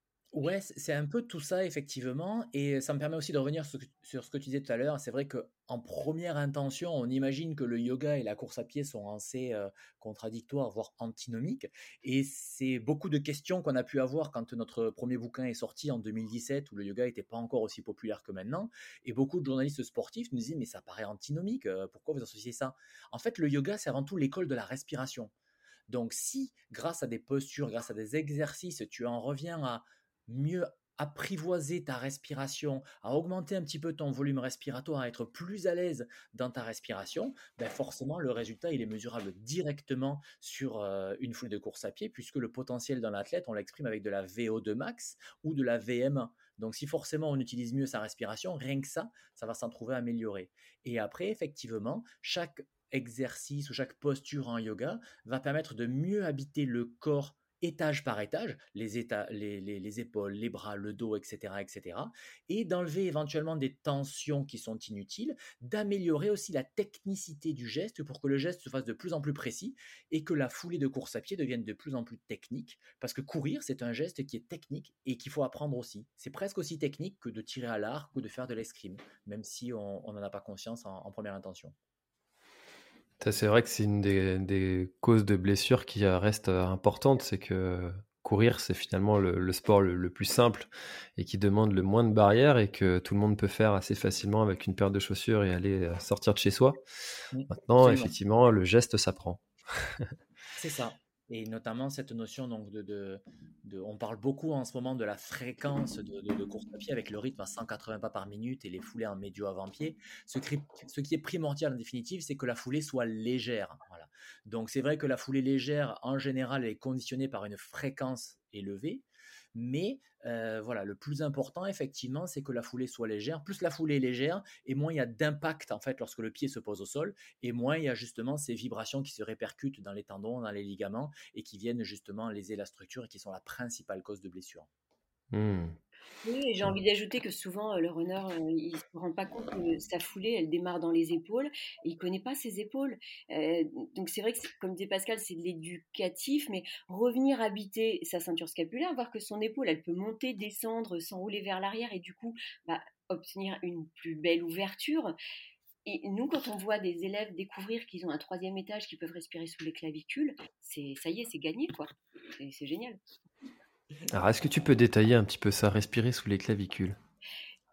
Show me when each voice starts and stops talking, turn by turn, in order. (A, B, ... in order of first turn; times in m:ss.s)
0:00.3-0:25.3 A
0:25.9-1:21.7 A
1:23.2-1:36.8 B
1:37.3-1:38.1 A
1:37.6-1:40.1 B
1:40.6-1:59.0 A
1:59.5-2:14.7 A
2:15.3-2:15.8 B
2:16.2-2:35.1 C
2:35.8-2:43.0 C
2:44.1-2:47.0 B